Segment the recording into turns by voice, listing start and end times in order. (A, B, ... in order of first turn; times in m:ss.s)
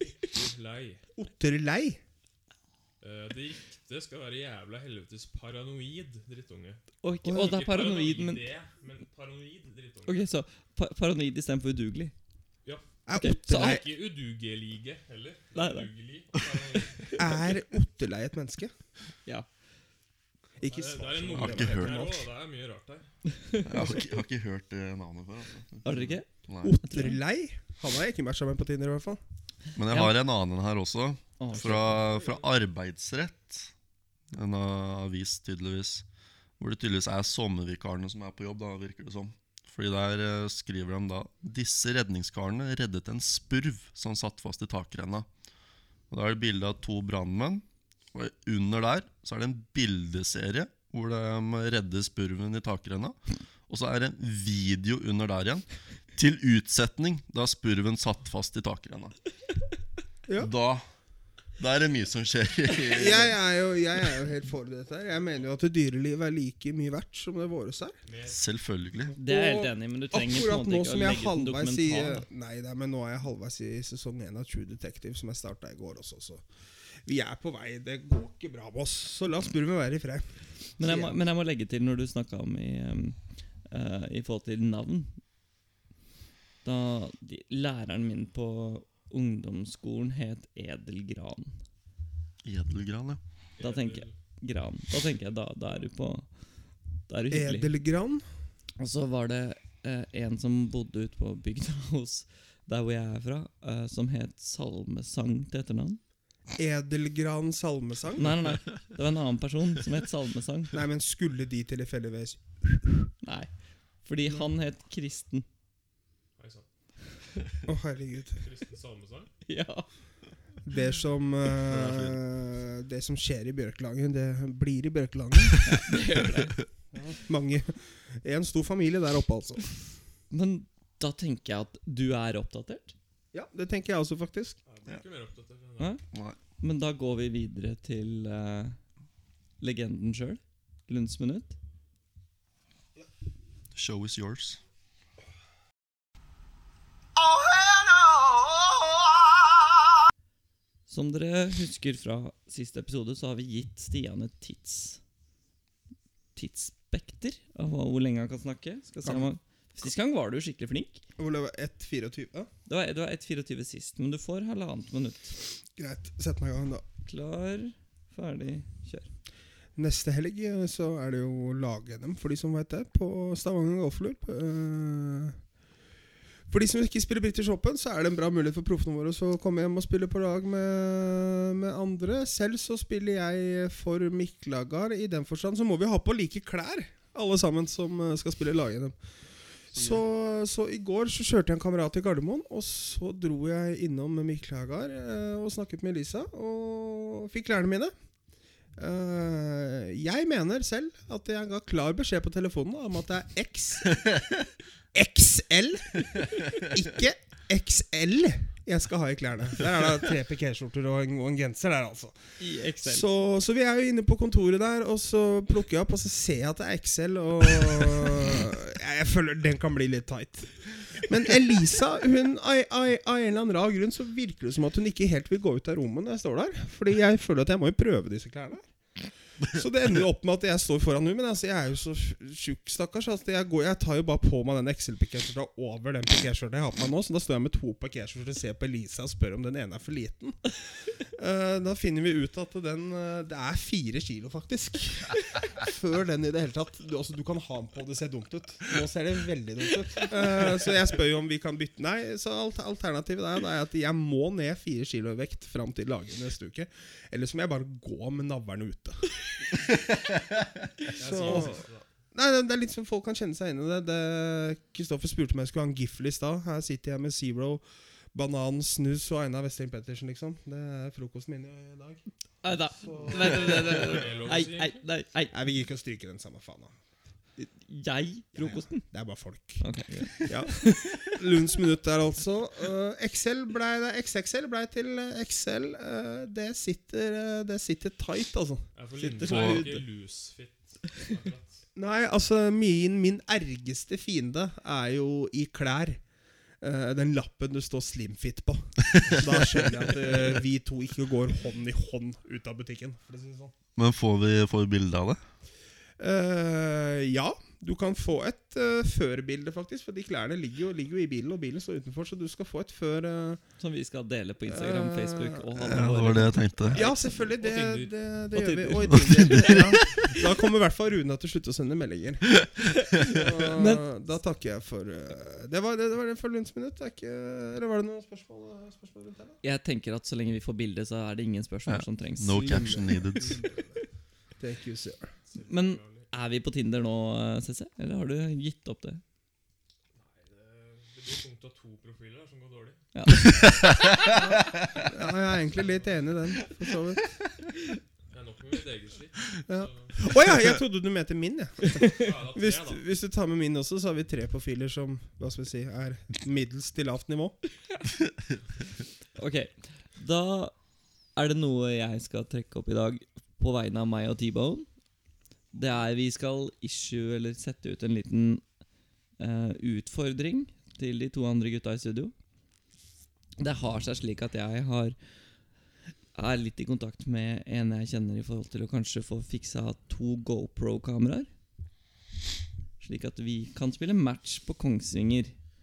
0:00.2-0:01.0 A
0:01.2-0:02.0 B
0:03.0-0:06.8 A
0:07.0-0:08.4 C
0:07.2-0:07.6 B
0:07.4-0:10.3 A
0:10.0-0:12.1 C
0:13.0-0:13.9 B
0:13.2-0:13.8 C
0:13.5-0:17.4 A
0:15.5-0:15.9 C
0:17.2-0:18.7 B
0:20.6-0:22.3 B
0:20.6-0:23.1 A
0:21.3-0:22.0 D
0:23.6-0:26.8 D
0:25.8-0:26.3 C
0:26.6-0:29.2 B
0:26.8-0:27.2 C
0:29.8-0:33.7 D
0:29.9-0:30.1 C
0:31.4-0:31.8 C
0:31.5-0:32.6 A
0:34.3-0:36.0 D
0:36.6-0:45.3 D
0:46.1-0:59.2 D
1:00.4-1:00.8 D
1:01.6-1:03.4 D
1:02.9-1:08.0 B
1:08.0-1:08.4 A
1:08.2-1:09.2 D
1:09.2-1:12.2 C
1:09.2-1:16.4 B
1:17.0-1:20.3 B
1:20.8-1:23.2 C
1:20.8-1:21.2 B
1:23.7-1:25.2 C
1:26.6-1:31.5 C
1:32.4-1:33.2 D
1:33.6-1:34.1 A
1:33.6-1:36.3 C
1:37.1-1:37.7 C
1:37.3-1:38.2 B
1:38.8-1:46.0 C
1:46.6-1:48.4 B
1:48.2-1:50.7 C
1:50.7-1:53.1 B
1:53.2-1:53.5 C
1:54.0-1:55.4 C
1:56.4-1:56.7 A
1:57.6-1:58.4 B
1:58.4-1:59.3 A
1:59.5-1:59.9 C
2:00.6-2:05.6 B
2:01.6-2:02.2 D
2:05.6-2:06.6 C
2:06.9-2:09.7 B
2:10.3-2:13.0 C
2:13.3-2:14.6 B
2:14.6-2:16.0 A
2:16.1-2:16.4 D
2:16.6-2:18.8 C
2:19.6-2:21.5 C
2:23.7-2:24.6 D
2:30.9-2:35.0 C
2:36.3-2:41.0 C
2:39.0-2:39.3 B
2:41.2-2:42.5 B
2:42.7-2:45.4 C
2:45.8-2:46.8 B
2:47.0-2:49.1 C
2:49.8-2:55.4 B
2:56.5-3:08.9 B
3:09.7-3:17.9 B
3:09.7-3:10.0 D
3:18.8-3:24.1 B
3:24.9-3:32.2 B
3:32.4-3:33.0 C
3:32.8-3:48.7 B
3:49.5-4:00.4 B
4:01.0-4:19.1 B
4:20.9-4:21.8 A
4:21.0-4:32.0 B
4:32.4-4:35.4 C
4:32.8-4:34.3 B
4:33.1-4:34.8 A
4:35.3-4:36.7 B
4:37.4-4:38.9 C
4:38.4-4:39.6 B
4:39.6-4:41.1 C
4:40.2-4:49.8 B
4:48.8-4:51.6 A
4:49.2-4:49.7 D
4:51.7-4:56.0 B
4:56.6-5:03.5 B
5:03.8-5:05.2 D
5:06.0-5:13.4 B
5:13.6-5:17.1 C
5:14.5-5:16.2 B
5:15.6-5:16.8 D
5:16.7-5:29.4 B
5:16.7-5:17.9 A
5:18.3-5:19.8 C
5:18.9-5:19.6 D
5:23.1-5:23.8 C
5:29.4-5:32.8 C
5:31.7-5:33.4 D
5:32.3-5:33.8 B
5:34.4-5:35.1 B
5:35.3-5:36.1 A
5:35.4-5:39.0 C
5:39.9-5:42.8 A
5:42.9-5:43.5 C
5:43.4-5:44.2 D
5:44.1-5:47.0 B
5:45.5-5:45.9 A
5:48.1-5:50.1 A
5:49.5-5:57.4 B
5:51.9-5:52.8 A
5:59.2-6:00.5 C
6:01.2-6:04.7 C
6:05.5-6:08.4 C
6:09.2-6:12.1 C
6:13.4-6:15.0 C
6:16.1-6:21.3 C
6:22.8-6:25.3 C